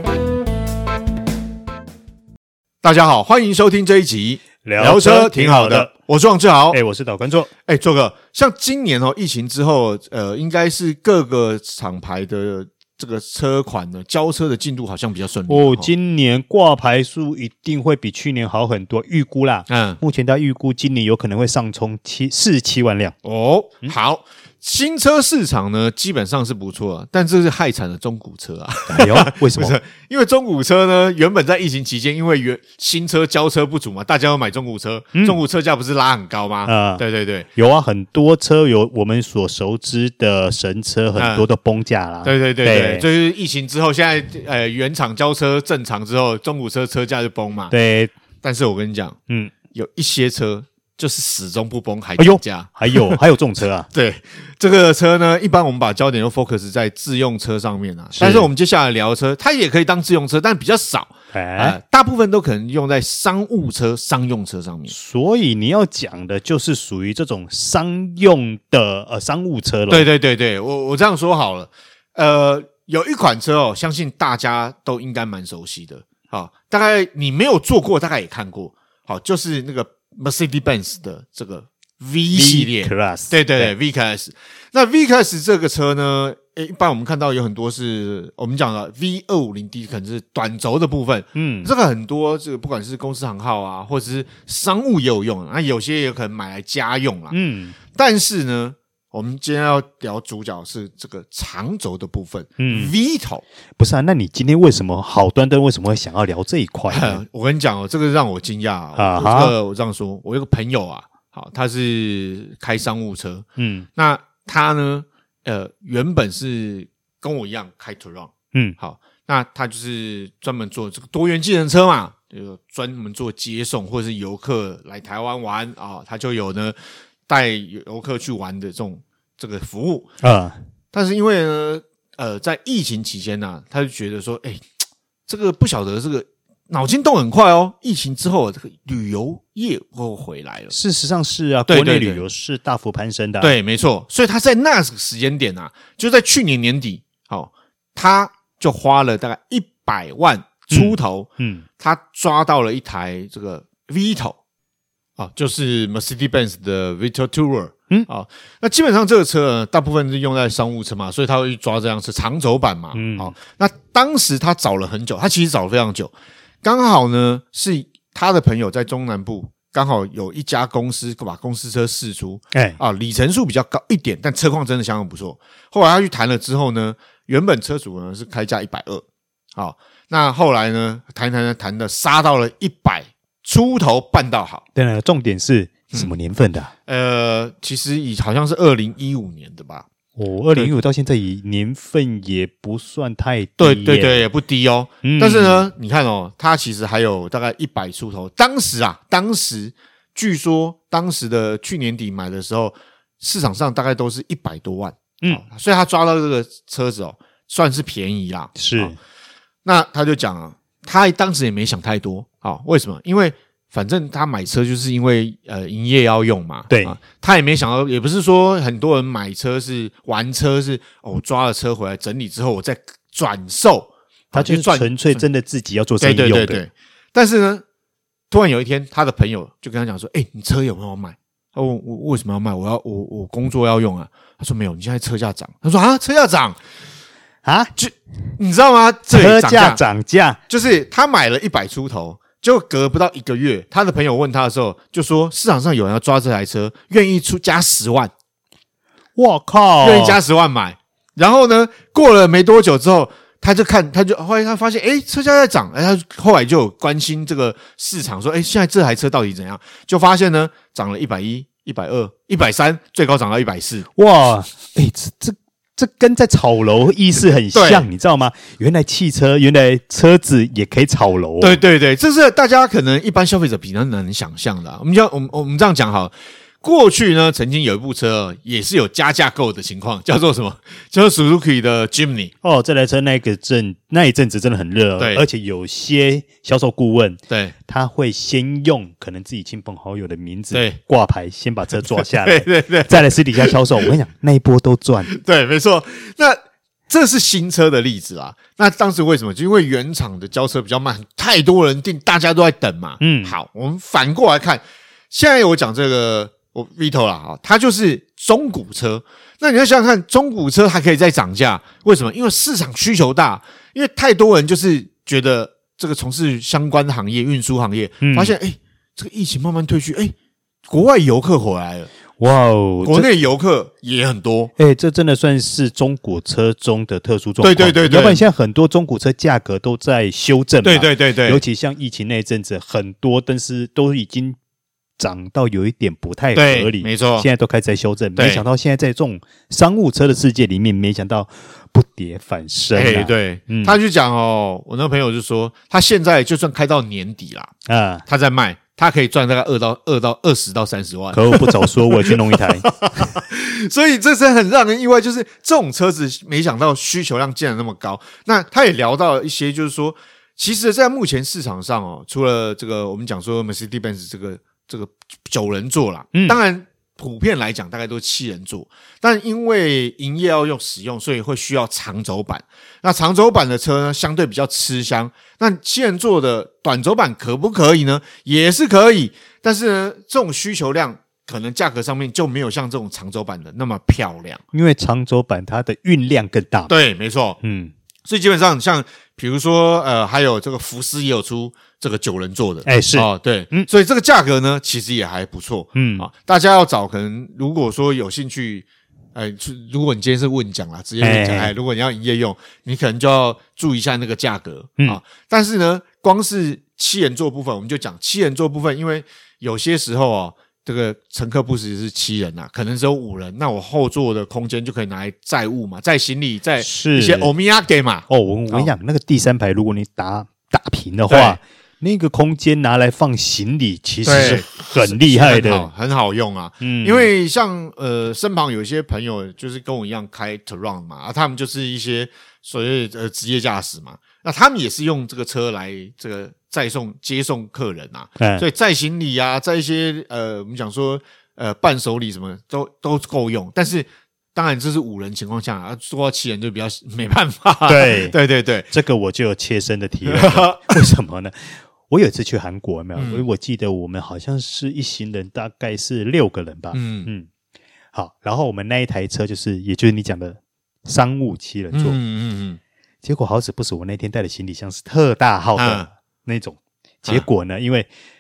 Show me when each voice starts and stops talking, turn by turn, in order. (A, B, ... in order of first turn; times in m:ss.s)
0:02.8-0:06.8 A
0:04.6-0:05.9 B
0:06.7-0:07.5 B
0:07.7-0:15.9 A
0:15.5-0:23.1 B
0:19.7-0:20.0 A
0:23.2-0:37.5 A
0:28.9-0:29.8 B
0:35.1-0:35.4 B
0:36.6-0:37.0 B
0:37.5-0:43.0 B
0:41.2-0:41.4 A
0:42.2-0:47.7 A
0:47.7-0:48.1 B
0:48.4-0:49.2 A
0:49.3-0:49.5 B
0:49.7-0:53.2 A
0:52.2-0:53.9 B
0:53.9-1:04.9 A
0:58.1-0:58.5 B
1:01.3-1:01.8 B
1:04.9-1:10.1 B
1:09.9-1:37.3 A
1:22.3-1:23.7 B
1:31.3-1:31.7 B
1:37.3-1:37.7 B
1:37.9-1:43.4 A
1:42.6-1:42.9 B
1:43.8-1:47.2 B
1:46.9-1:53.4 A
1:48.9-1:49.5 B
1:53.6-1:53.9 B
1:54.0-2:06.8 A
2:07.3-2:10.1 A
2:10.2-2:10.6 B
2:10.9-2:14.7 A
2:15.3-2:20.7 A
2:20.7-2:23.5 B
2:21.7-2:22.2 A
2:23.4-2:31.3 A
2:30.7-2:31.6 B
2:31.8-2:34.4 A
2:35.2-2:59.0 A
2:42.9-2:43.3 B
2:59.6-3:04.6 A
3:04.7-3:06.7 B
3:06.8-3:09.8 A
3:10.2-3:14.2 B
3:13.6-3:28.9 A
3:15.0-3:15.6 B
3:28.6-3:29.0 B
3:29.6-3:45.2 A
3:36.7-3:37.0 B
3:44.3-3:46.6 B
3:46.0-3:47.6 A
3:48.3-3:56.6 A
3:57.4-3:57.7 B
3:57.8-3:59.8 A
3:59.1-4:00.4 B
4:00.5-4:08.1 A
4:09.2-4:10.2 B
4:09.8-4:23.8 A
4:24.0-4:31.6 B
4:27.5-4:27.9 A
4:31.4-4:42.3 A
4:42.4-4:55.1 B
4:45.0-4:45.2 A
4:50.5-4:50.8 A
4:52.2-4:53.5 A
4:55.1-5:20.1 A
5:03.0-5:03.3 B
5:18.0-5:18.3 B
5:20.7-5:21.9 A
5:22.2-5:23.1 B
5:22.8-5:24.5 A
5:24.6-5:34.4 B
5:27.4-5:28.2 A
5:30.6-5:31.4 A
5:35.0-5:43.8 B
5:36.3-5:37.3 A
5:38.2-5:38.4 A
5:42.7-5:47.5 A
5:47.7-5:48.0 B
5:48.0-6:24.4 A
5:51.1-5:52.6 B
6:06.1-6:06.4 B
6:24.5-6:26.7 B
6:26.7-6:27.4 A
6:27.4-6:27.7 B
6:28.0-6:58.7 A
6:32.6-6:33.7 B
6:35.7-6:36.1 B
6:41.0-6:41.5 B
6:56.6-6:57.3 B
6:58.1-7:05.7 B
7:01.1-7:01.4 A
7:04.0-7:28.7 A
7:06.6-7:07.1 B
7:18.2-7:18.4 B
7:27.7-7:28.2 B
7:28.7-7:37.3 B
7:30.0-7:30.9 A
7:33.0-7:33.2 A
7:36.7-7:37.1 A
7:37.9-7:42.0 B
7:41.7-7:42.6 A
7:43.0-7:47.9 B
7:45.6-7:45.9 A